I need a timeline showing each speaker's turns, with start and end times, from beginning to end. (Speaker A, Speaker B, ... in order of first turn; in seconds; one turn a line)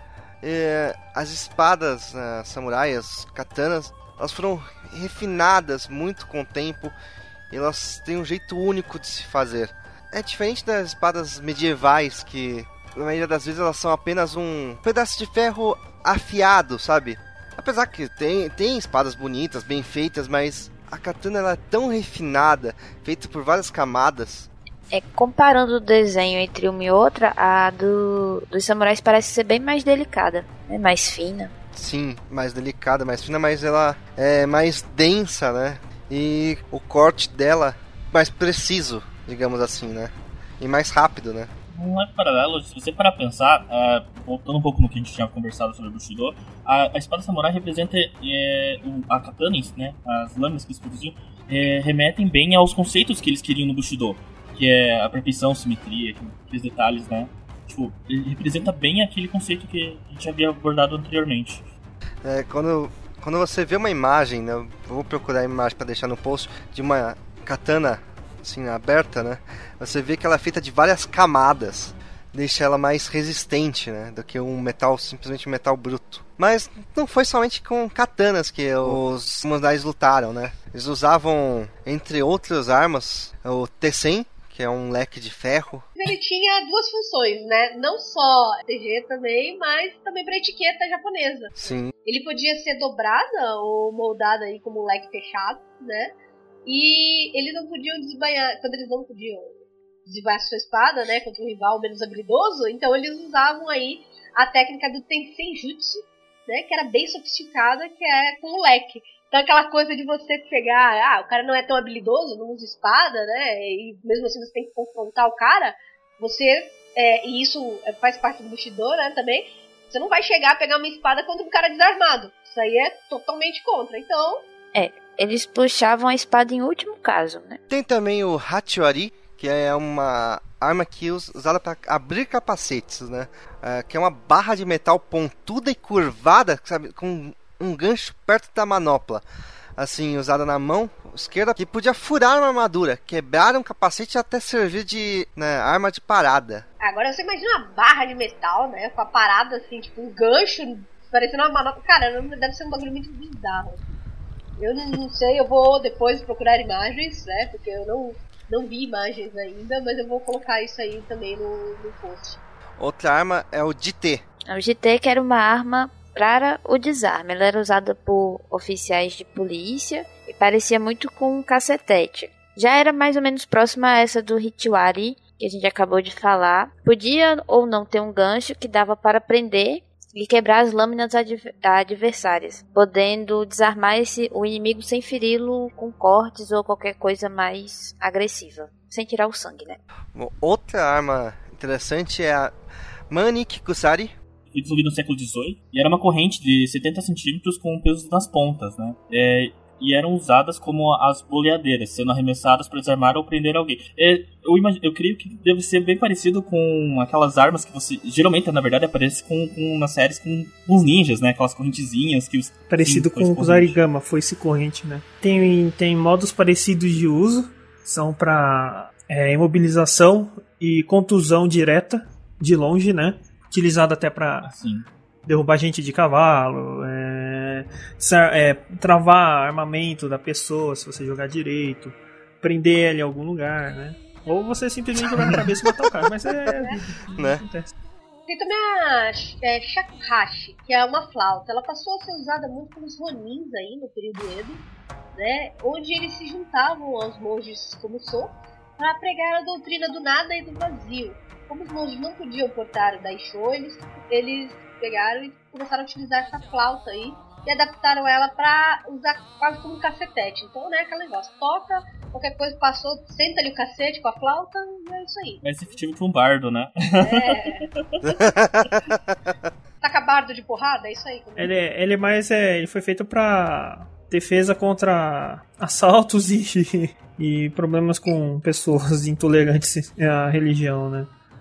Speaker A: 0.4-6.9
Speaker A: 7.5-24.5
Speaker B: 24.9-31.5
Speaker A: 31.7-41.5
Speaker C: 41.7-61.6
Speaker A: 62.2-85.9
Speaker D: 86.0-91.5
Speaker A: 91.6-91.9
Speaker D: 92.0-96.1
Speaker D: 96.7-124.5
Speaker B: 124.7-127.6
Speaker A: 127.7-139.2
Speaker A: 139.8-146.7
Speaker D: 146.8-153.8
Speaker D: 154.6-162.4
Speaker A: 162.8-164.2
Speaker B: 164.5-189.8
Speaker A: 190.1-192.5
Speaker A: 193.1-194.1
Speaker C: 194.5-213.8
Speaker E: 212.7-224.5
Speaker C: 224.4-224.9
Speaker E: 225.3-237.7
Speaker A: 237.2-237.4
Speaker D: 238.3-265.4
Speaker C: 265.4-268.0
Speaker D: 267.0-268.4
Speaker A: 268.1-268.9
Speaker D: 269.8-271.5
Speaker E: 271.4-281.1